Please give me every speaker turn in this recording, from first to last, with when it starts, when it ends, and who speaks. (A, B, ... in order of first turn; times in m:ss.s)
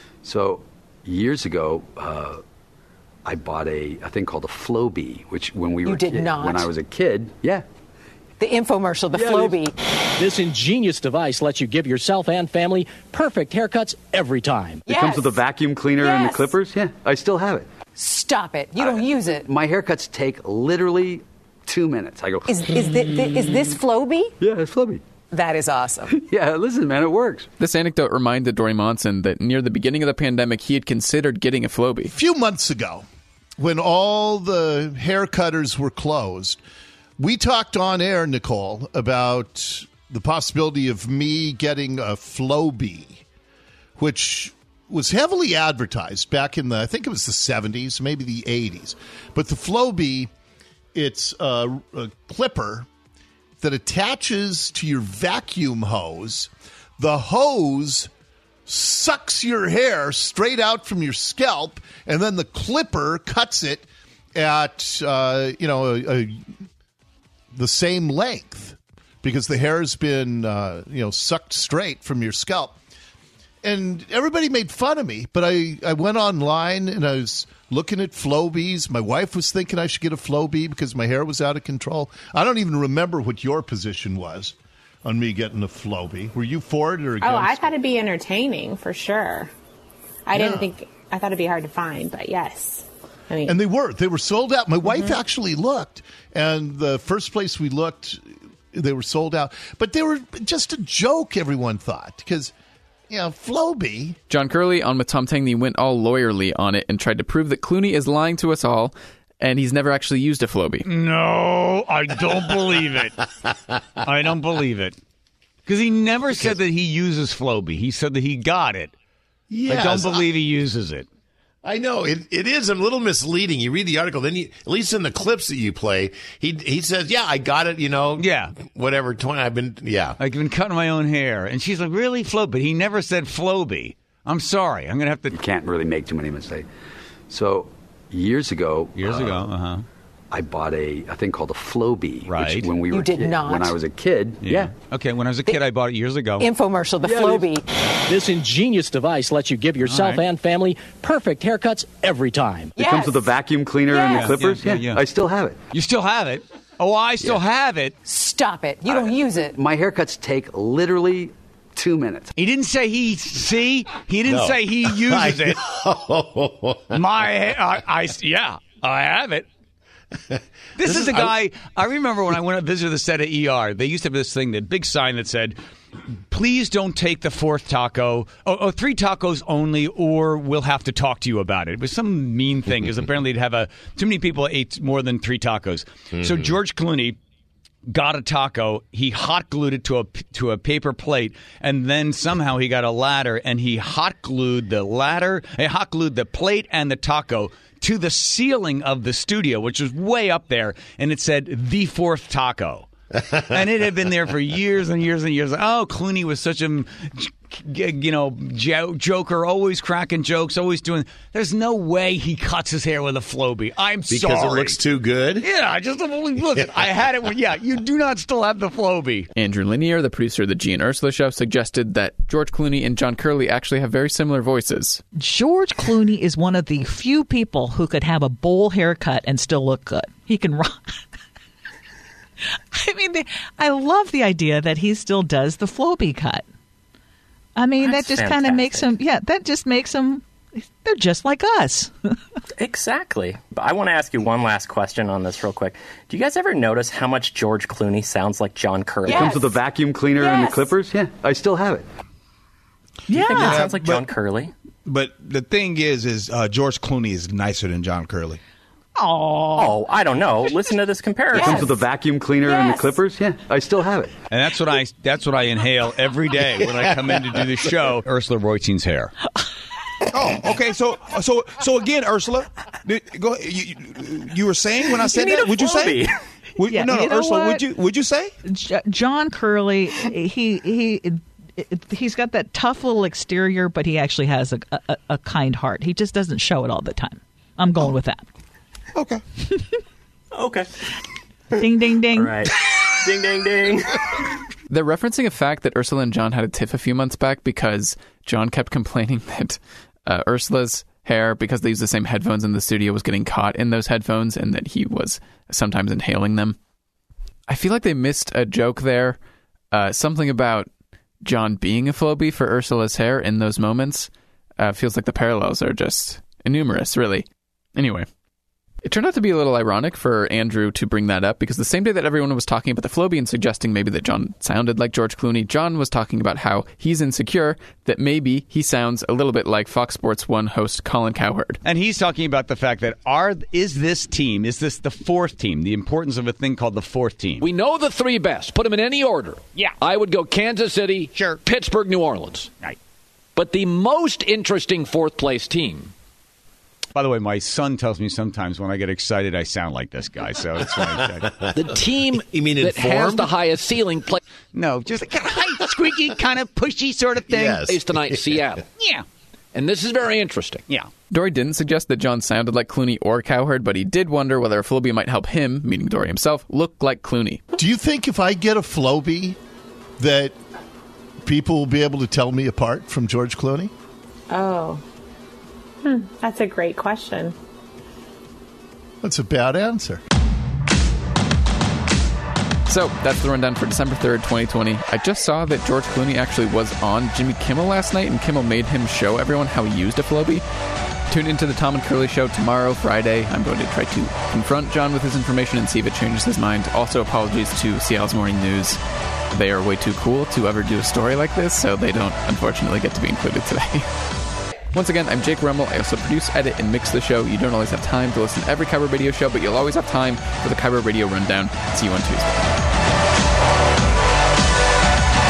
0:00.2-0:02.4 A
0:03.3-0:07.6 A
0:05.8-0:06.7 B
0:08.4-0:09.7 B
0:09.1-0:09.6 A
0:10.2-0:14.9 C
0:14.9-0:15.3 B
0:14.9-0:17.7 A
0:16.0-0:16.5 B
0:18.0-0:19.4 B
0:18.8-0:22.5 A
0:22.5-0:24.3 B
0:24.4-0:25.0 A
0:25.3-0:26.1 B
0:26.1-0:27.5 A
0:27.6-0:32.1 D
0:32.1-0:33.0 E
0:33.6-0:36.6 E
0:37.2-0:43.2 E
0:44.0-0:50.3 E
0:51.0-0:52.9 E
0:53.6-0:58.1 E
0:58.7-1:06.4 E
1:07.5-1:12.8 E
1:13.6-1:24.6 E
1:25.0-1:27.7 E
1:27.2-1:29.5 F
1:30.3-1:33.6 F
1:30.3-1:30.7 E
1:33.5-1:38.2 E
1:38.7-1:42.5 E
1:43.1-1:44.2 E
1:44.3-1:50.9 D
1:50.8-1:53.2 G
1:54.0-1:55.0 G
1:55.7-1:58.9 G
1:59.5-2:00.3 H
1:59.7-2:01.1 G
2:01.6-2:10.2 H
2:08.2-2:08.5 G
2:10.2-2:15.4 G
2:15.3-2:16.7 A
2:17.3-2:19.4 A
2:19.0-2:19.8 G
2:20.3-2:24.7 A
2:22.2-2:22.8 G
2:22.9-2:23.8 B
2:24.4-2:26.5 G
2:26.4-2:27.6 B
2:27.0-2:27.5 A
2:28.1-2:32.8 C
2:29.8-2:30.3 G
2:32.8-2:35.6 A
2:32.8-2:33.2 B
2:34.0-2:35.0 G
2:35.7-2:38.0 G
2:38.0-2:39.6 B
2:39.0-2:42.3 A
2:42.4-2:45.6 G
2:44.2-2:47.0 H
2:46.9-2:49.5 G
2:50.8-2:55.6 G
2:50.8-2:51.3 H
2:56.3-3:07.2 G
3:07.9-3:22.9 G
3:23.5-3:34.8 G
3:34.1-3:35.4 H
3:35.4-3:39.3 G
3:36.6-3:36.9 H
3:39.4-3:45.0 D
3:45.2-3:50.9 I
3:52.7-3:56.4 I
3:57.6-4:02.2 I
3:57.8-3:59.0 J
4:02.6-4:09.6 J
4:09.1-4:11.9 A
4:13.1-4:13.7 I
4:13.1-4:14.5 J
4:13.6-4:13.9 K
4:14.9-4:18.4 K
4:19.0-4:19.8 I
4:19.5-4:21.9 J
4:21.3-4:24.1 A
4:22.5-4:22.8 B
4:24.3-4:29.1 G
4:30.2-4:36.0 K
4:34.8-4:36.1 J
4:36.6-4:38.3 K
4:36.6-4:37.7 I
4:38.4-4:48.2 I
4:49.0-4:49.2 K
4:50.3-4:50.7 J
4:51.5-4:52.4 I
4:52.1-4:54.0 J
4:54.7-5:06.6 D
5:07.5-5:09.2 D
5:09.7-5:10.7 D
5:11.2-5:18.1 D
5:18.8-5:31.6 D
5:31.6-5:37.4 G
5:37.4-5:42.5 L
5:43.4-5:45.9 L
5:47.0-5:51.4 G
5:51.4-5:53.3 H
5:51.6-5:54.2 L
5:54.5-5:57.7 G
5:57.3-5:58.4 H
5:57.6-5:58.6 L
5:59.5-6:00.6 L
6:01.1-6:07.4 D
6:07.6-6:09.4 E
6:10.0-6:10.4 E
6:11.2-6:13.7 E
6:14.3-6:14.8 F
6:15.8-6:17.4 F
6:19.0-6:20.0 E
6:22.7-6:30.4 D
6:31.1-6:38.8 D
6:39.3-6:43.9 D
6:44.7-6:52.5 D